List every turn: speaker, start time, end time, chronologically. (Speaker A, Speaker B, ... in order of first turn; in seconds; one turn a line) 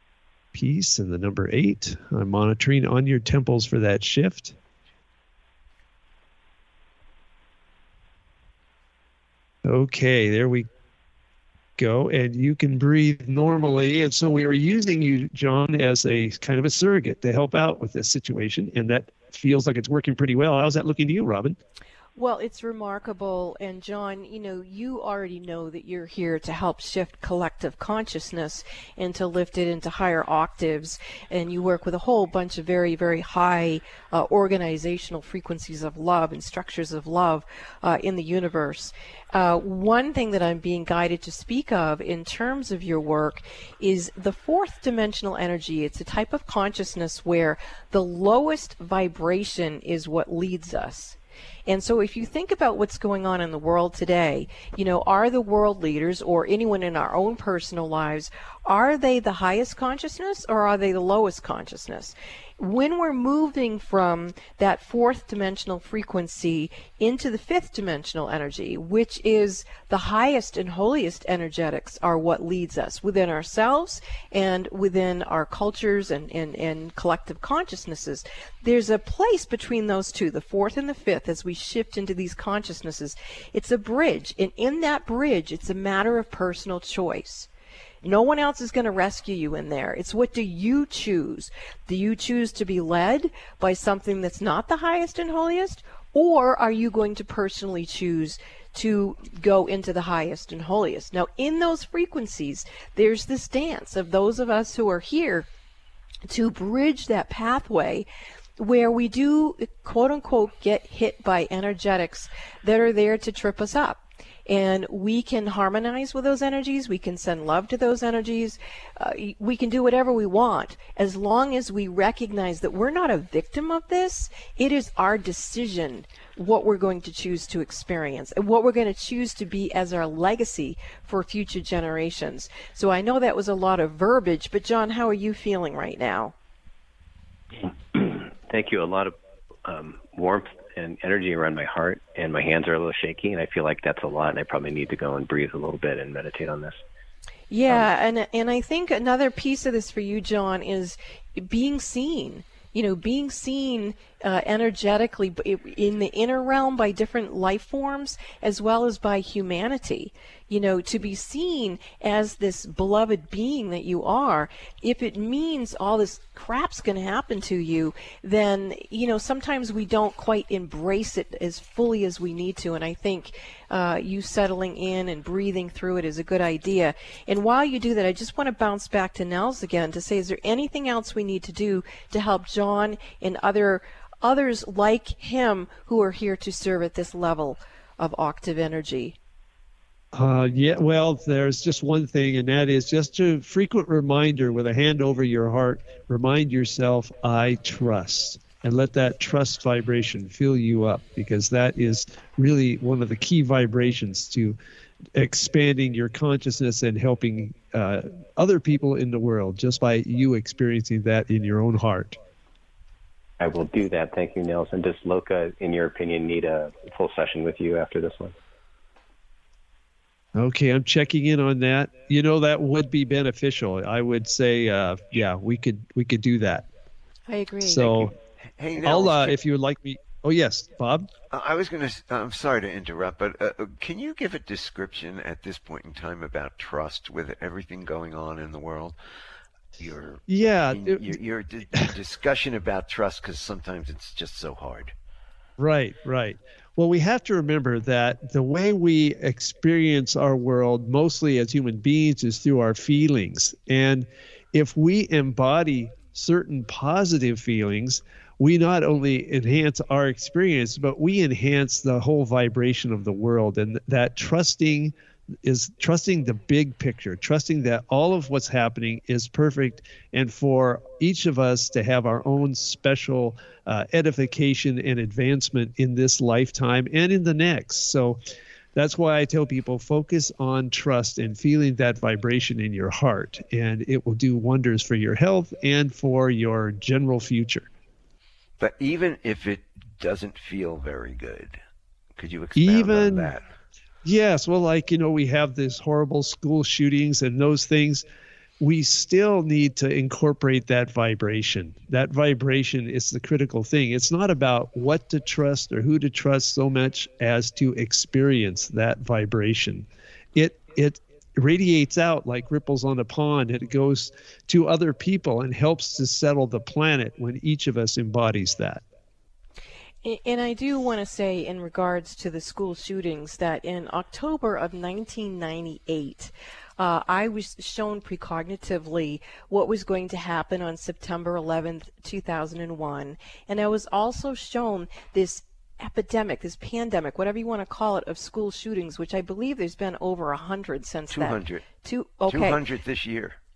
Speaker A: 0.5-4.6
Speaker A: 9.6-10.7
Speaker A: 11.8-21.6
Speaker B: 22.2-87.5
Speaker B: 88.0-105.5
Speaker B: 106.3-108.1
Speaker B: 108.6-136.3
Speaker C: 137.6-146.8
Speaker B: 147.5-189.2
Speaker A: 190.1-204.6
Speaker A: 205.2-212.2
Speaker C: 213.4-218.3
Speaker A: 220.3-226.7
Speaker B: 227.3-228.1
Speaker A: 227.6-228.1
Speaker D: 228.4-229.3
Speaker A: 228.8-231.1
Speaker D: 231.3-239.0
Speaker D: 239.8-244.9
Speaker A: 240.3-241.2
Speaker A: 245.6-278.2
Speaker A: 278.8-287.7
Speaker D: 288.6-291.6
Speaker D: 292.2-293.5
Speaker A: 292.6-293.3
Speaker A: 294.0-298.0
Speaker A: 298.6-318.8
Speaker B: 320.0-342.6
Speaker D: 341.1-341.7
Speaker D: 342.3-343.4